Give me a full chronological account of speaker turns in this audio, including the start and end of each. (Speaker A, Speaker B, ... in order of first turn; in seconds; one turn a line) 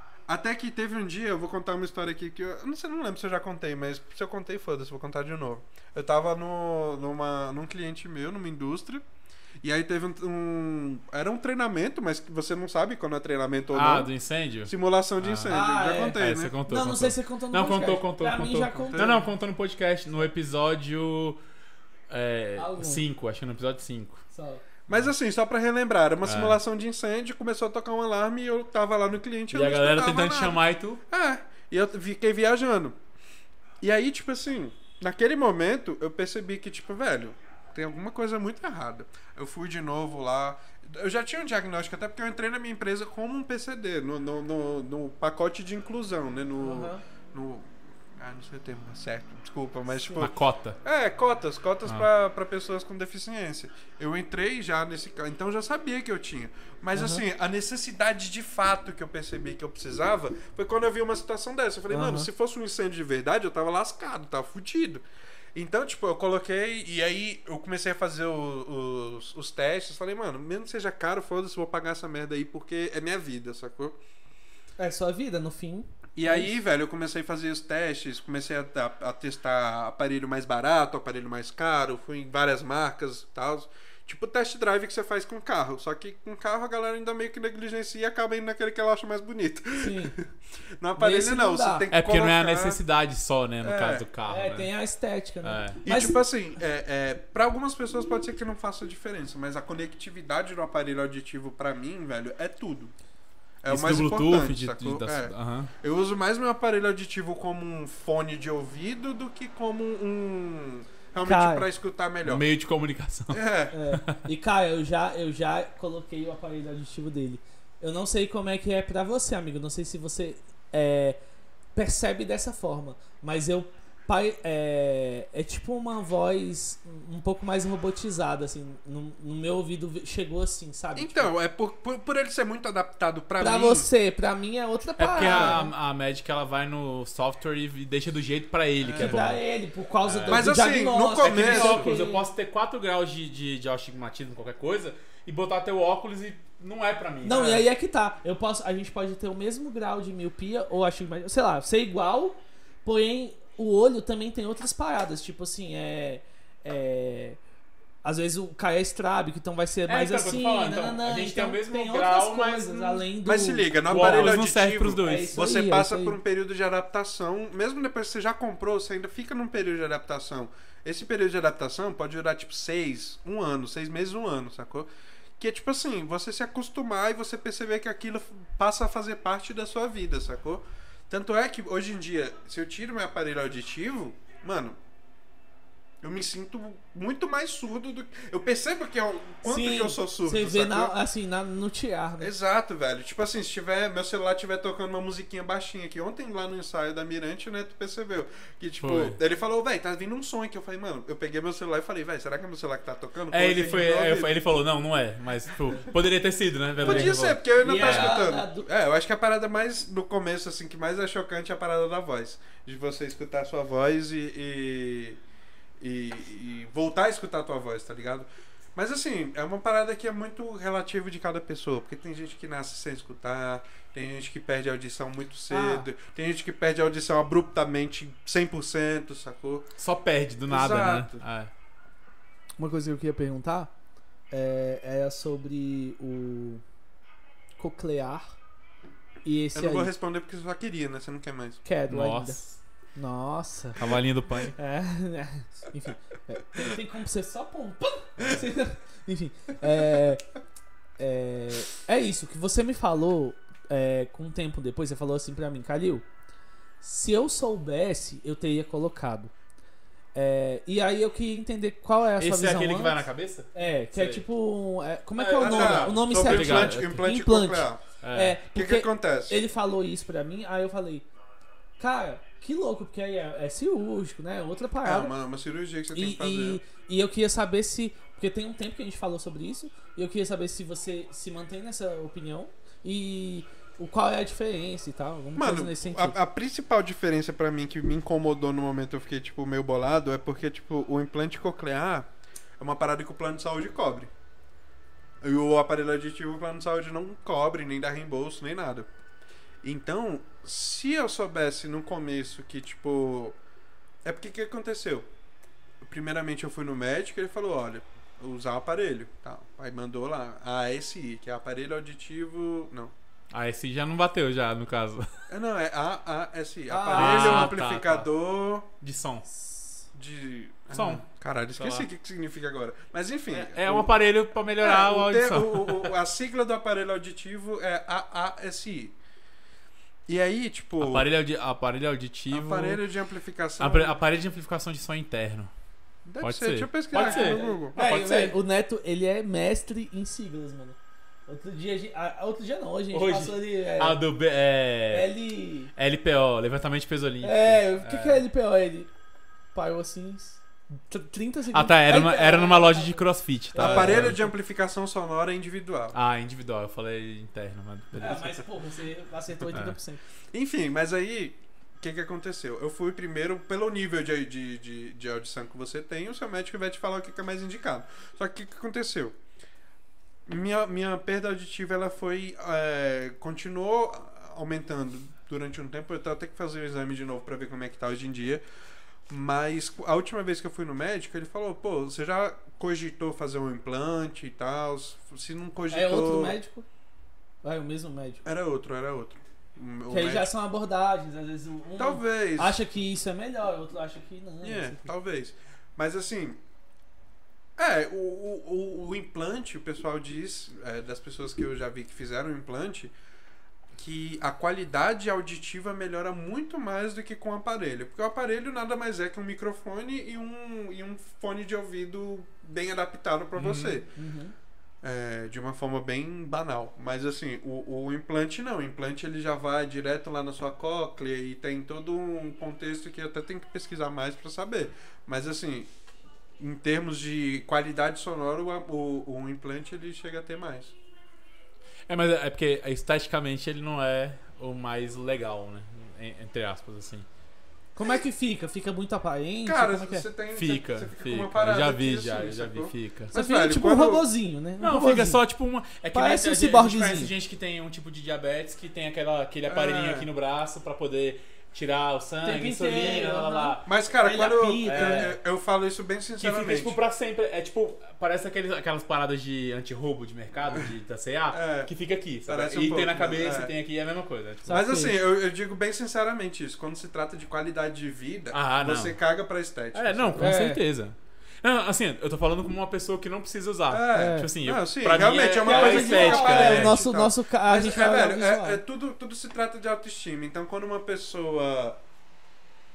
Speaker A: 0.3-9.0
Speaker A: 9.6-14.1
Speaker B: 13.7-21.4
Speaker A: 14.6-16.6
Speaker C: 15.5-19.2
Speaker A: 18.7-19.3
Speaker B: 22.1-24.2
Speaker C: 22.6-23.0
Speaker C: 24.3-24.6
Speaker A: 24.9-33.0
Speaker B: 26.2-26.6
Speaker B: 29.5-31.0
Speaker A: 33.8-65.0
Speaker C: 46.6-47.0
Speaker C: 49.9-50.3
Speaker B: 50.2-50.8
Speaker C: 56.9-57.2
Speaker C: 61.9-62.3
Speaker A: 65.5-74.0
Speaker C: 74.8-76.5
Speaker A: 76.2-90.3
Speaker C: 89.8-90.2
Speaker A: 90.8-92.8
Speaker C: 91.0-91.9
Speaker B: 91.9-94.7
Speaker A: 93.6-94.0
Speaker C: 94.3-96.2
Speaker B: 95.4-95.8
Speaker A: 95.8-102.9
Speaker A: 103.6-112.4
Speaker B: 103.7-105.7
Speaker C: 111.2-111.7
Speaker B: 112.2-114.2
Speaker A: 113.3-113.8
Speaker C: 113.7-121.2
Speaker C: 121.7-131.3
Speaker A: 130.9-133.9
Speaker C: 133.4-135.7
Speaker B: 135.0-139.4
Speaker A: 135.2-135.7
Speaker A: 138.8-139.2
Speaker C: 139.0-142.2
Speaker B: 140.0-140.5
Speaker A: 140.3-141.9
Speaker B: 141.2-147.7
Speaker C: 147.2-157.4
Speaker C: 158.0-164.4
Speaker B: 159.9-163.1
Speaker A: 163.2-184.8
Speaker B: 163.9-165.4
Speaker C: 165.0-166.2
Speaker A: 186.0-190.9
Speaker C: 189.4-192.3
Speaker A: 192.2-204.3
Speaker B: 198.8-199.2
Speaker B: 203.3-208.2
Speaker A: 206.8-215.2
Speaker C: 206.8-208.7
Speaker A: 215.8-229.7
Speaker C: 225.5-225.9
Speaker B: 229.8-231.5
Speaker A: 230.5-231.2
Speaker C: 232.6-233.7
Speaker C: 234.3-236.6
Speaker C: 237.6-238.3
Speaker C: 239.2-239.9
Speaker A: 239.5-241.6
Speaker C: 241.6-242.4
Speaker B: 241.9-242.6
Speaker C: 242.9-243.9
Speaker B: 243.8-244.6
Speaker C: 244.6-250.2
Speaker B: 248.2-248.4
Speaker C: 251.0-256.0
Speaker C: 256.8-259.3
Speaker C: 260.1-271.1
Speaker B: 262.2-264.2
Speaker B: 265.2-266.9
Speaker A: 265.4-267.8
Speaker B: 268.0-268.4
Speaker A: 268.5-269.4
Speaker C: 271.8-275.1
Speaker A: 274.8-276.6
Speaker C: 275.9-286.2
Speaker A: 285.4-292.1
Speaker A: 292.6-294.1
Speaker A: 295.2-298.9
Speaker A: 299.6-303.4
Speaker A: 304.0-305.1
Speaker A: 305.8-312.9
Speaker B: 313.3-315.1
Speaker A: 315.3-318.7
Speaker C: 316.7-317.5
Speaker B: 316.9-318.1
Speaker B: 318.8-319.3
Speaker C: 319.4-319.7
Speaker A: 319.9-323.9
Speaker B: 320.7-321.0
Speaker B: 321.6-321.9
Speaker B: 323.3-325.9
Speaker A: 324.6-328.9
Speaker A: 330.1-331.1
Speaker B: 330.8-332.8
Speaker A: 332.3-334.0
Speaker B: 333.6-335.5
Speaker A: 336.1-337.8
Speaker B: 336.2-338.4
Speaker C: 336.9-344.0
Speaker B: 342.9-345.1
Speaker C: 344.9-345.7
Speaker B: 345.8-348.2
Speaker C: 347.2-348.9
Speaker C: 349.5-354.3
Speaker B: 351.5-354.2
Speaker A: 353.6-355.9
Speaker B: 355.9-358.4
Speaker C: 357.9-360.0
Speaker B: 359.5-359.8
Speaker A: 360.3-369.1
Speaker A: 370.2-378.4
Speaker A: 379.1-386.4
Speaker C: 385.7-386.7
Speaker C: 387.4-388.2
Speaker A: 388.2-390.3
Speaker C: 389.9-394.9
Speaker A: 391.8-392.6
Speaker A: 394.4-396.4
Speaker A: 397.6-402.9
Speaker A: 403.8-413.9
Speaker B: 413.4-413.8
Speaker C: 413.9-414.3
Speaker A: 414.8-425.7
Speaker A: 426.4-430.7
Speaker B: 431.9-437.1
Speaker C: 437.8-440.1
Speaker A: 439.4-444.1
Speaker B: 440.3-443.1
Speaker C: 443.1-445.2
Speaker B: 444.6-453.7
Speaker C: 445.9-447.1
Speaker A: 449.5-450.1
Speaker C: 452.2-455.1
Speaker A: 453.6-456.8
Speaker B: 454.6-455.2
Speaker B: 456.2-464.6
Speaker A: 461.3-461.7
Speaker A: 462.3-463.5
Speaker C: 464.5-464.9
Speaker A: 464.5-470.3
Speaker B: 468.3-469.0
Speaker B: 469.7-476.8
Speaker C: 470.2-470.6
Speaker A: 473.7-481.8
Speaker C: 473.9-474.3
Speaker C: 475.4-478.6